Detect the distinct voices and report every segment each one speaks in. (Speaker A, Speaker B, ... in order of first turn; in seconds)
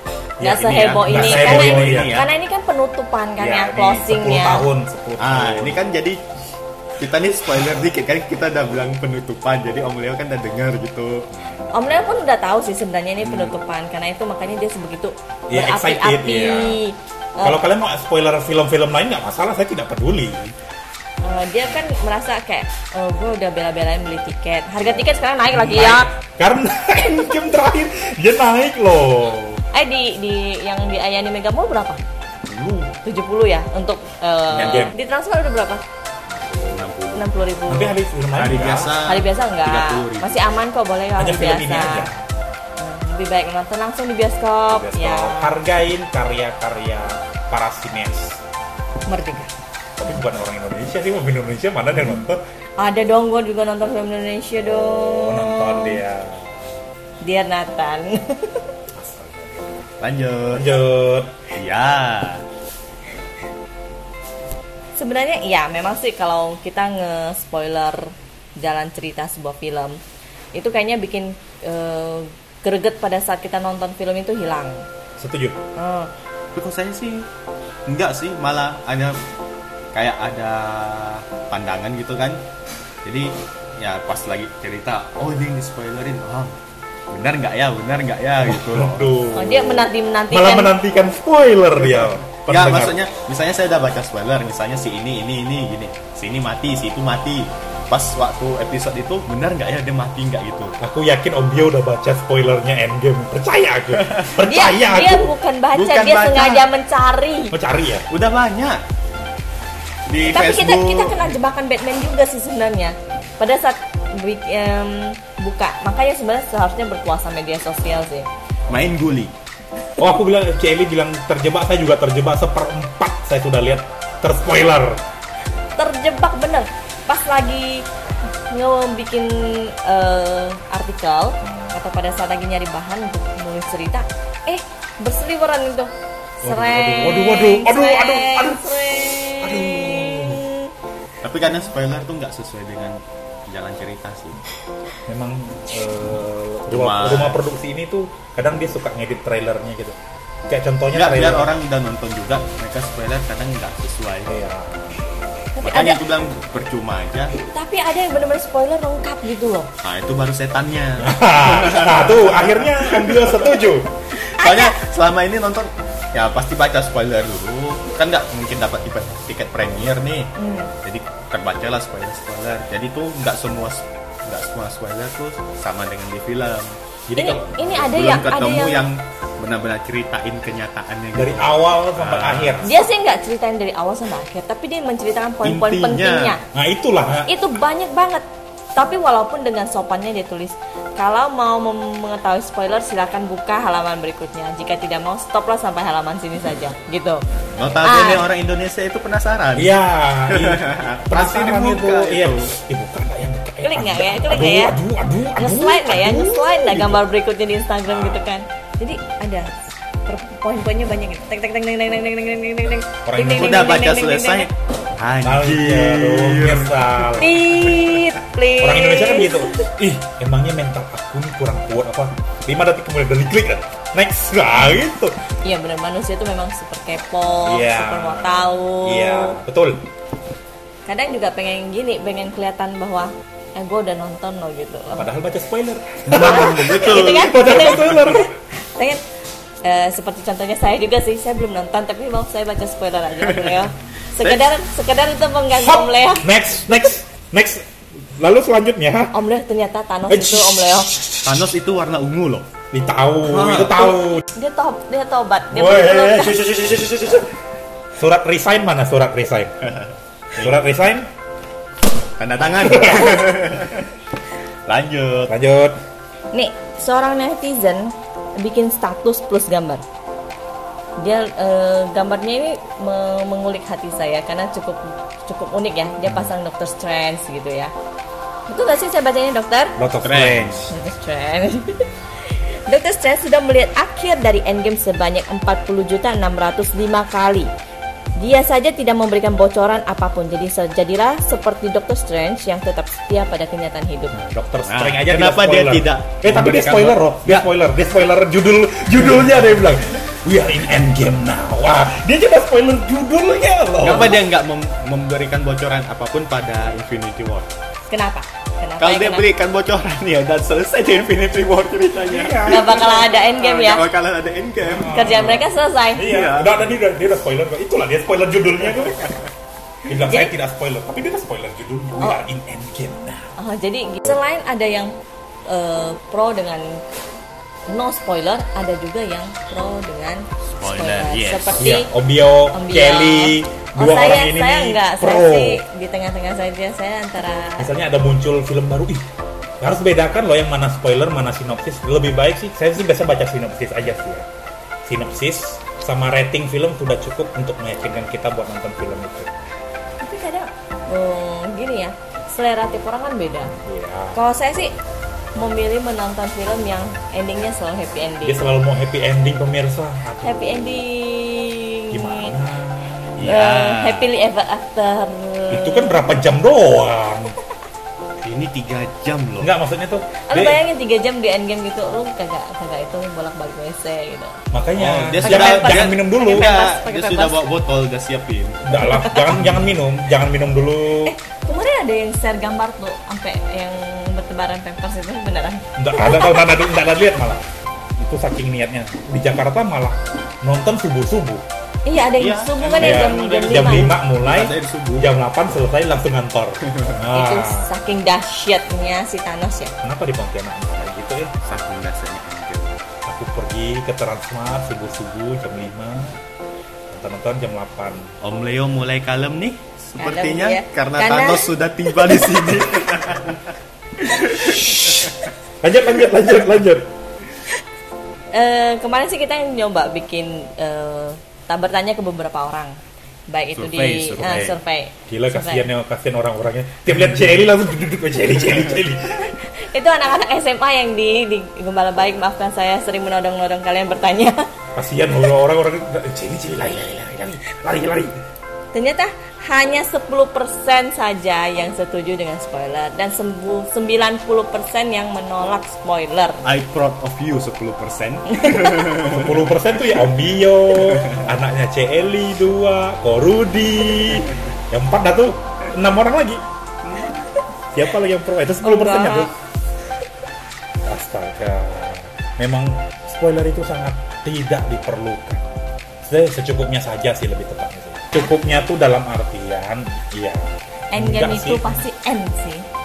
Speaker A: 0.4-4.7, 11.7-17.6, 21.2-26.1, 29.7-32.0, 33.0-35.8, 37.1-38.0, 39.0-42.1, 42.8-45.6, 49.1-49.5, 52.8-56.0, 57.2-58.6, 65.0-70.0, 70.5-74.8, 75.8-76.1, 89.3-90.7, 104.4-107.5, 110.2-118.3, 125.8-127.8, 128.5-135.9, 136.4-140.7, 155.5-156.0, 157.4-159.7, 164.2-164.8, 170.4-170.7, 177.2-178.8, 182.6-186.4, 187.3-188.2, 188.8-197.2, 197.8-198.2, 203.6-204.8, 205.3-214.5, 217.2-219.7, 225.4-229.4, 230.8-235.1, 236.1-239.0, 239.6-246.3, 249.1-250.9, 254.3-256.6, 266.3-269.8, 271.0-277.7, 278.5-279.8, 280.7-287.5, 288.2-294.1, 307.9-309.3, 312.4-313.8, 314.9-316.1, 320.1-320.3, 323.4-326.8, 327.7-331.9, 332.5-337.7, 350.0-353.5, 354.1-354.7, 355.4-358.4, 360.2-362.3, 363.2-366.0, 370.3-374.4, 375.2-377.4, 378.8-379.3, 381.1-386.6, 391.9-393.9, 397.1-399.7, 410.0-412.2, 418.3-425.7, 429.2-434.5, 438.7-446.4, 448.3-448.8, 458.6-459.3, 470.9-472.6
Speaker B: 0.4-2.3, 5.2-6.2, 7.0-11.3, 13.2-13.5, 32.5-32.9, 36.7-37.2, 38.4-40.5, 60.0-60.7, 61.5-62.4, 76.5-77.2, 77.9-79.2, 79.9-82.4, 83.0-86.5, 87.1-89.1, 91.8-100.8, 103.9-104.3, 105.7-106.7, 108.1-108.8, 110.1-111.3, 118.7-119.3, 141.2-144.4, 146.7-147.4, 150.9-154.3, 155.6-157.3, 159.8-163.5, 164.2-170.3, 170.8-176.7, 177.8-182.7, 185.4-186.3, 197.6-199.8, 200.3-202.5, 213.3-217.2, 236.1-238.2, 243.2-243.6, 244.2-244.5, 251.2-252.4, 253.3-253.8, 256.7-257.1, 259.6-260.5, 262.2-263.9, 264.7-265.3, 280.0-280.7, 294.6-297.5, 303.8-307.5, 308.8-315.4, 316.0-316.7, 318.9-319.2, 330.5-331.7, 363.2-364.1, 368.2-369.5, 374.8-378.8, 379.3-379.6, 392.2-395.1, 396.7-396.9, 401.4-402.7, 408.2-415.3, 423.5-424.5, 446.4-449.5, 450.7-451.3
Speaker C: 1.0-2.2, 3.4-5.8, 11.5-11.7, 15.5-16.8, 17.4-20.5, 25.5-29.6, 34.5-34.9, 36.3-36.9, 37.7-39.0, 41.2-42.2, 44.7-48.4, 50.0-52.4, 54.6-56.7, 58.9-59.9, 60.5-61.3, 75.2-75.6, 88.4-93.0, 100.8-105.3, 107.5-108.1, 120.0-125.0, 131.4-131.7, 136.4-140.4, 145.1-150.0, 150.5-151.5, 154.3-155.0, 161.0-163.9, 177.1-178.2, 181.1-182.7, 186.5-187.3, 197.6-197.8, 199.6-207.0, 207.9-208.2, 213.0-213.7, 215.2-217.4, 218.6-225.2, 227.4-229.8, 234.9-238.3, 245.6-249.1, 250.1-251.3, 252.7-254.2, 255.5-257.2, 258.0-259.5, 260.4-261.1, 262.6-263.2, 265.3-265.8, 279.8-280.7, 294.1-304.2, 312.1-313.1, 314.6-319.1, 319.9-323.3, 331.6-335.6, 337.6-339.0, 339.6-344.3, 344.9-349.3, 353.6-354.2, 358.2-360.8, 361.9-363.3, 365.5-367.3, 369.4-370.6, 374.5-376.5, 378.6-381.1, 385.8-387.4, 388.0-391.4, 392.8-397.7, 399.8-401.3, 403.1-406.2, 406.9-408.1, 414.4-416.9, 424.2-424.5, 425.1-429.3, 434.8-438.2, 449.0-456.4, 457.7-459.3, 460.9-465.4, 466.0-471.8